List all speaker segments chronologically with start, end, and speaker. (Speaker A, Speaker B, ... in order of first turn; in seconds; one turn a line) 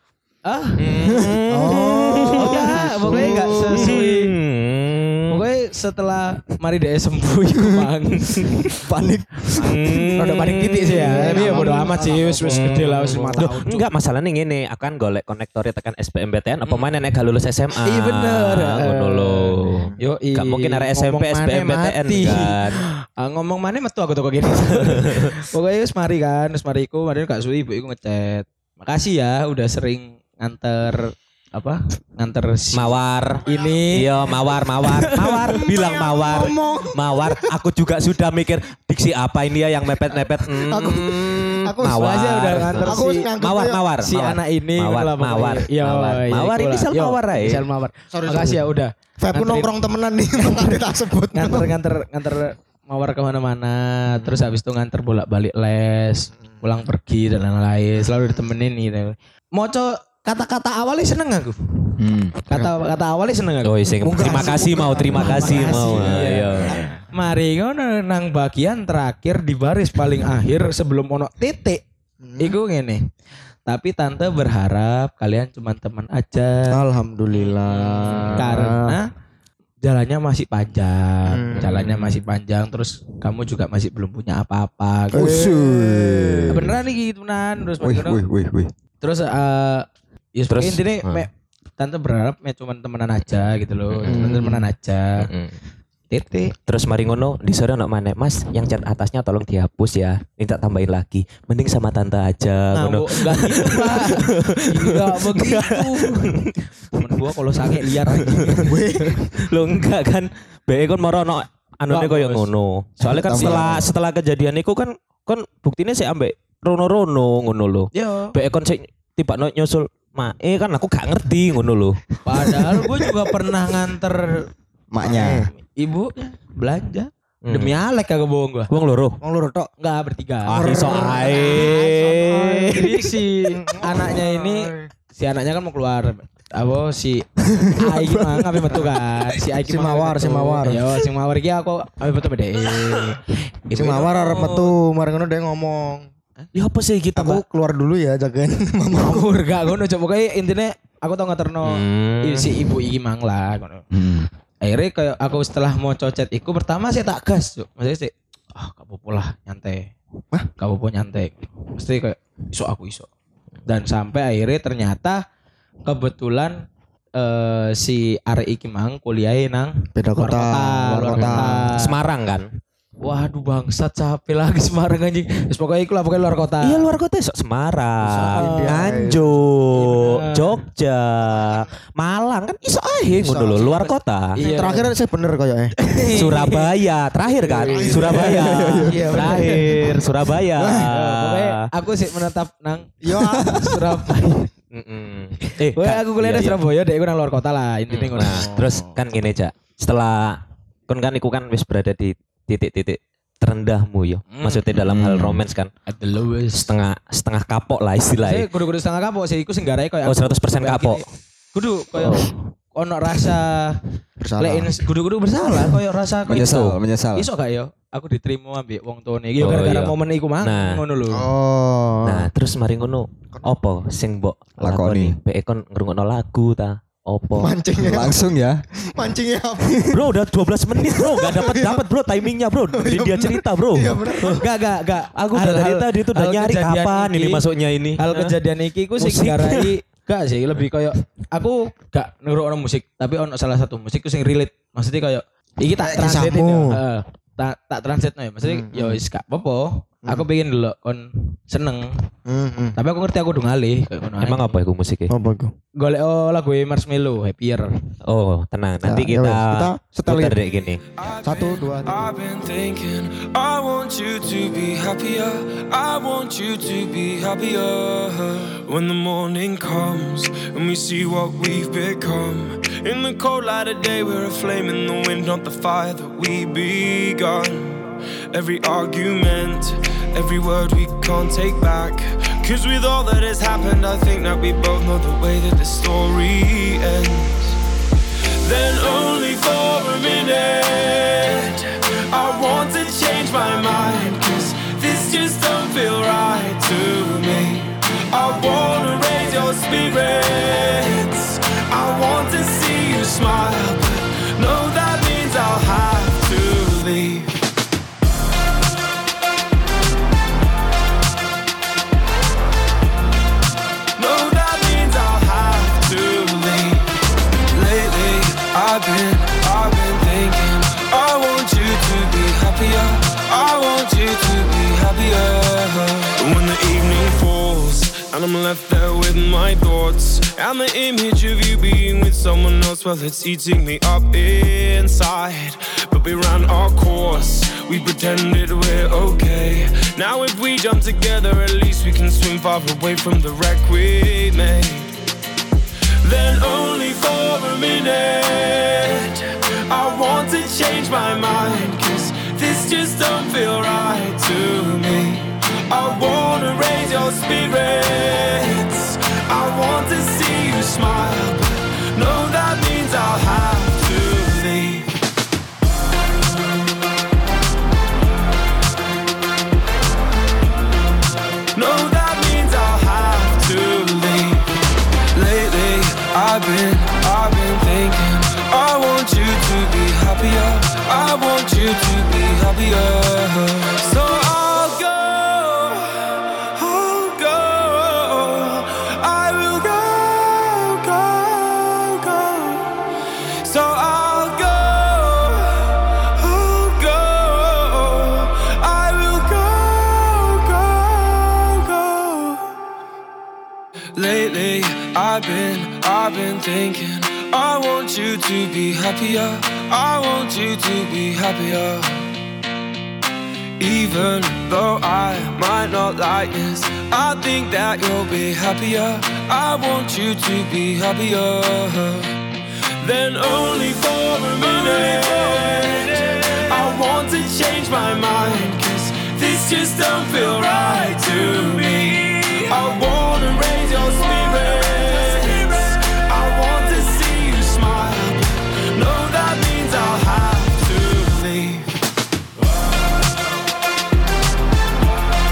Speaker A: 0.5-1.0
Speaker B: 0.8-5.5
Speaker C: 1.5-4.0
Speaker A: 2.3-4.3
Speaker A: 5.3-8.8
Speaker D: 8.7-9.8
Speaker A: 9.6-13.9
Speaker B: 9.6-11.4
Speaker C: 10.9-13.6
Speaker D: 11.3-11.7
Speaker B: 12.5-22.8
Speaker A: 16.7-16.9
Speaker A: 17.8-34.3
Speaker B: 24.6-25.2
Speaker B: 32.7-47.6
Speaker A: 34.8-35.6
Speaker C: 35.6-37.5
Speaker C: 40.1-42.2
Speaker A: 41.9-43.3
Speaker C: 42.7-43.8
Speaker A: 44.0-49.7
Speaker C: 48.1-51.8
Speaker A: 50.4-71.8
Speaker C: 54.1-54.5
Speaker D: 62.0-62.4
Speaker B: 63.6-66.8
Speaker C: 64.0-66.9
Speaker C: 72.2-72.6
Speaker A: 72.4-73.1
Speaker A: 73.7-76.8
Speaker C: 76.7-79.0
Speaker B: 78.1-78.4
Speaker A: 78.1-79.1
Speaker A: 79.8-85.6
Speaker C: 81.3-82.0
Speaker B: 81.6-82.0
Speaker C: 85.1-86.6
Speaker D: 85.1-86.8
Speaker A: 86.5-88.2
Speaker D: 87.8-88.7
Speaker A: 89.0-95.3
Speaker B: 90.5-91.3
Speaker B: 93.9-94.3
Speaker C: 94.2-94.6
Speaker B: 95.2-95.6
Speaker A: 96.1-96.5
Speaker B: 96.7-106.6
Speaker A: 102.7-108.7
Speaker B: 108.2-108.7
Speaker C: 108.6-109.1
Speaker D: 108.7-109.0
Speaker B: 109.2-122.0
Speaker A: 111.9-112.5
Speaker A: 113.0-113.8
Speaker D: 113.1-113.9
Speaker A: 117.9-118.3
Speaker A: 122.2-124.5
Speaker D: 124.9-125.5
Speaker C: 125.0-125.5
Speaker A: 125.5-128.7
Speaker B: 127.5-127.8
Speaker B: 128.7-129.2
Speaker C: 129.2-129.7
Speaker A: 129.8-144.4
Speaker B: 130.5-132.9
Speaker C: 130.6-134.9
Speaker C: 139.4-141.0
Speaker C: 143.7-146.1
Speaker B: 144.2-144.7
Speaker B: 146.5-147.4
Speaker C: 147.2-149.3
Speaker A: 149.0-153.9
Speaker B: 151.7-152.7
Speaker D: 153.9-154.3
Speaker A: 154.6-159.9
Speaker A: 160.6-163.1
Speaker A: 163.7-165.2
Speaker A: 165.8-166.6
Speaker A: 167.2-171.9
Speaker C: 169.9-171.7
Speaker B: 171.1-172.5
Speaker A: 173.0-176.9
Speaker B: 176.6-184.4
Speaker A: 178.1-178.9
Speaker C: 178.1-179.5
Speaker A: 179.8-180.6
Speaker C: 183.1-185.8
Speaker A: 184.4-184.9
Speaker A: 185.8-186.7
Speaker B: 186.1-191.6
Speaker A: 187.4-189.9
Speaker C: 187.6-189.5
Speaker D: 188.5-189.0
Speaker A: 190.6-194.5
Speaker C: 193.0-193.8
Speaker B: 194.7-196.6
Speaker A: 195.5-198.9
Speaker B: 197.9-205.7
Speaker A: 204.3-204.8
Speaker D: 204.8-205.4
Speaker A: 205.9-206.7
Speaker B: 206.5-208.5
Speaker A: 208.2-213.8
Speaker B: 210.1-211.0
Speaker B: 212.0-212.3
Speaker C: 214.2-214.8
Speaker A: 214.4-221.3
Speaker D: 216.3-217.3
Speaker B: 219.4-220.8
Speaker C: 221.1-222.3
Speaker B: 222.0-227.6
Speaker D: 224.6-225.2
Speaker C: 227.4-228.2
Speaker D: 227.8-228.6
Speaker C: 228.8-230.0
Speaker B: 229.9-234.4
Speaker C: 230.8-231.9
Speaker C: 232.7-234.5
Speaker A: 234.2-237.4
Speaker B: 235.2-238.4
Speaker A: 238.0-251.9
Speaker B: 239.0-239.7
Speaker C: 245.8-246.8
Speaker C: 248.4-249.0
Speaker C: 252.3-252.8
Speaker A: 252.8-254.6
Speaker B: 254.2-255.1
Speaker C: 255.1-255.5
Speaker A: 255.8-257.7
Speaker B: 258.1-260.8
Speaker C: 258.8-260.4
Speaker E: 260.9-287.6
Speaker C: 261.2-262.1
Speaker E: 288.4-307.4
Speaker E: 314.0-316.9
Speaker E: 317.5-344.9
Speaker E: 346.0-364.9
Speaker E: 371.5-374.5
Speaker E: 375.1-392.8
Speaker E: 393.4-402.5
Speaker E: 404.0-412.1
Speaker E: 413.6-422.2
Speaker E: 422.8-441.7